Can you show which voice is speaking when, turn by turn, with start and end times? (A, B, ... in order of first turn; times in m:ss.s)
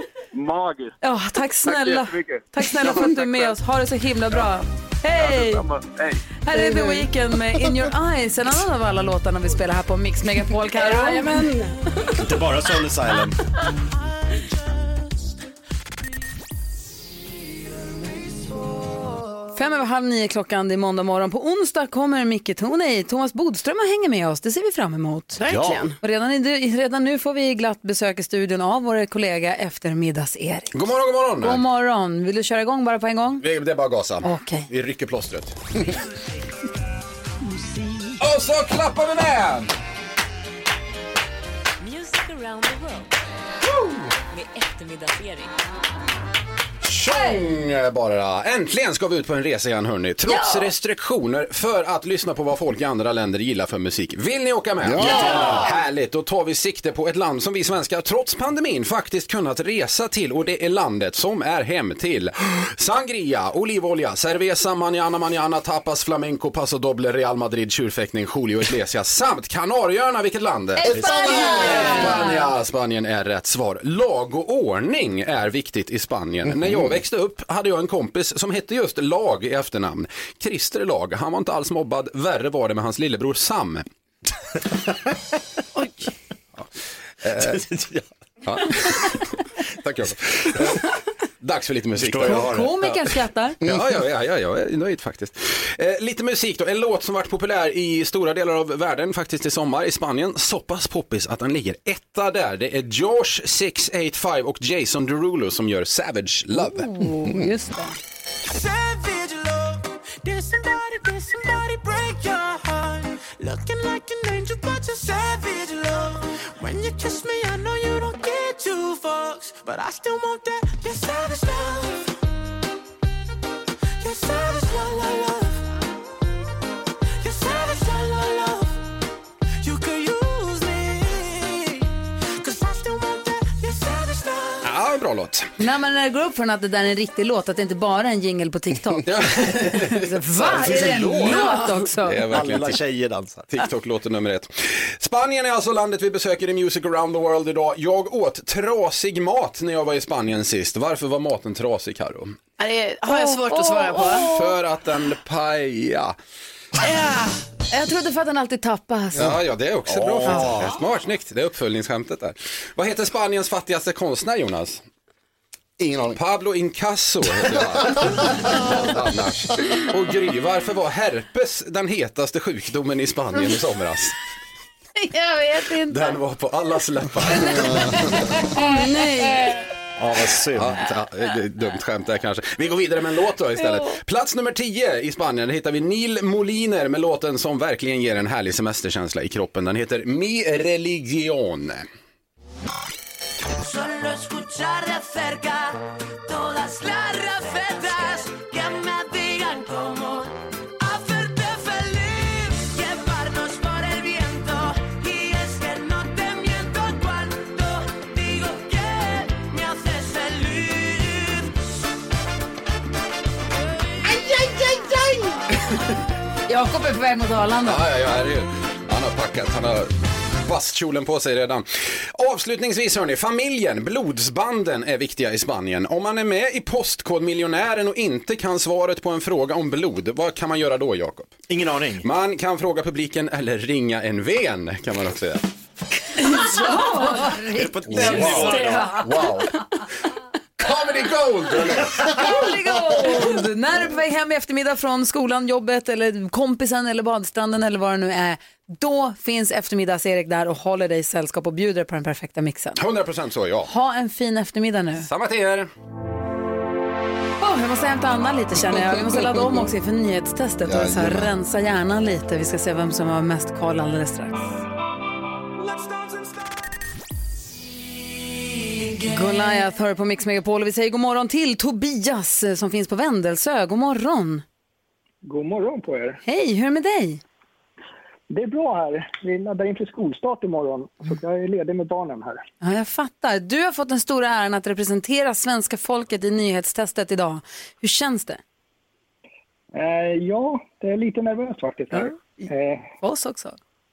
0:00.3-0:01.0 A
0:01.0-0:05.6 B
0:01.6-0:03.6 A
0:05.1-0:06.3 A
0:06.4-0:11.4 B
0:06.5-0:07.0 C
0:10.7-0:12.4 C
0:12.2-0:13.4 D
0:19.5-0:25.4 B
0:25.4-0:26.0 C
0:25.5-0:25.9 D
0:26.0-0:30.8 B
0:30.7-0:31.6 E
0:31.4-0:33.4 B
0:33.4-0:35.8 E
0:34.2-0:34.7 B
0:38.2-0:39.7 E
0:41.8-0:43.0 F
0:44.3-0:45.5 F
0:46.8-1:23.8 E
0:50.2-0:50.7 B
0:54.8-0:55.6 G
0:55.0-0:55.6 D
1:10.8-1:12.5 B
1:11.0-1:11.5 G
1:27.2-1:27.6 E
1:27.3-1:28.1 D
1:28.4-1:30.9 E
1:31.4-1:32.6 E
1:32.0-1:33.0 D
1:32.2-1:33.6 B
1:33.6-1:46.9 E
1:46.6-1:48.0 B
1:48.4-2:02.1 H
2:04.0-2:05.6 H
2:07.2-2:08.8 H
2:09.6-2:11.8 H
2:12.4-2:14.6 H
2:14.6-2:15.5 E
2:15.6-2:22.2 B
2:19.0-2:22.8 E
2:20.5-2:21.6 D
2:21.5-2:21.7 C
2:22.3-2:23.6 D
2:23.5-2:32.4 E
2:32.6-2:34.3 C
2:33.1-2:34.5 B
2:34.1-2:36.1 E
2:36.8-2:37.4 C
2:37.7-2:39.2 B
2:39.2-2:44.8 E
2:39.9-2:40.8 D
2:45.8-2:46.2 G
2:46.1-2:54.1 E
2:55.0-2:56.2 B
2:55.8-2:58.2 E
2:57.3-2:58.8 B
2:58.5-2:59.6 C
3:00.0-3:00.8 D
3:00.5-3:11.9 E
3:13.6-3:15.7 H
3:16.2-3:20.3 H
3:20.8-3:31.5 H
3:36.5-3:37.8 B
3:37.6-3:39.9 E
3:40.4-3:51.4 E
3:51.5-3:52.0 D
3:52.0-3:55.4 E
3:56.2-3:59.1 B
3:56.6-3:57.2 C
3:57.5-3:58.9 D
3:57.9-3:59.6 E
3:58.0-3:59.0 C
4:00.6-4:02.2 E
4:02.1-4:12.8 B
4:12.8-4:13.7 E
4:13.6-4:15.1 B
4:15.0-4:15.7 E
4:17.4-4:24.5 B
4:20.6-4:21.3 G
4:29.1-4:34.4 B
4:35.2-4:36.2 I
4:36.2-4:37.2 B
4:38.3-4:42.4 I
4:42.6-4:48.4 B
4:49.7-4:52.8 I
4:51.9-4:52.4 B
4:53.0-4:53.6 B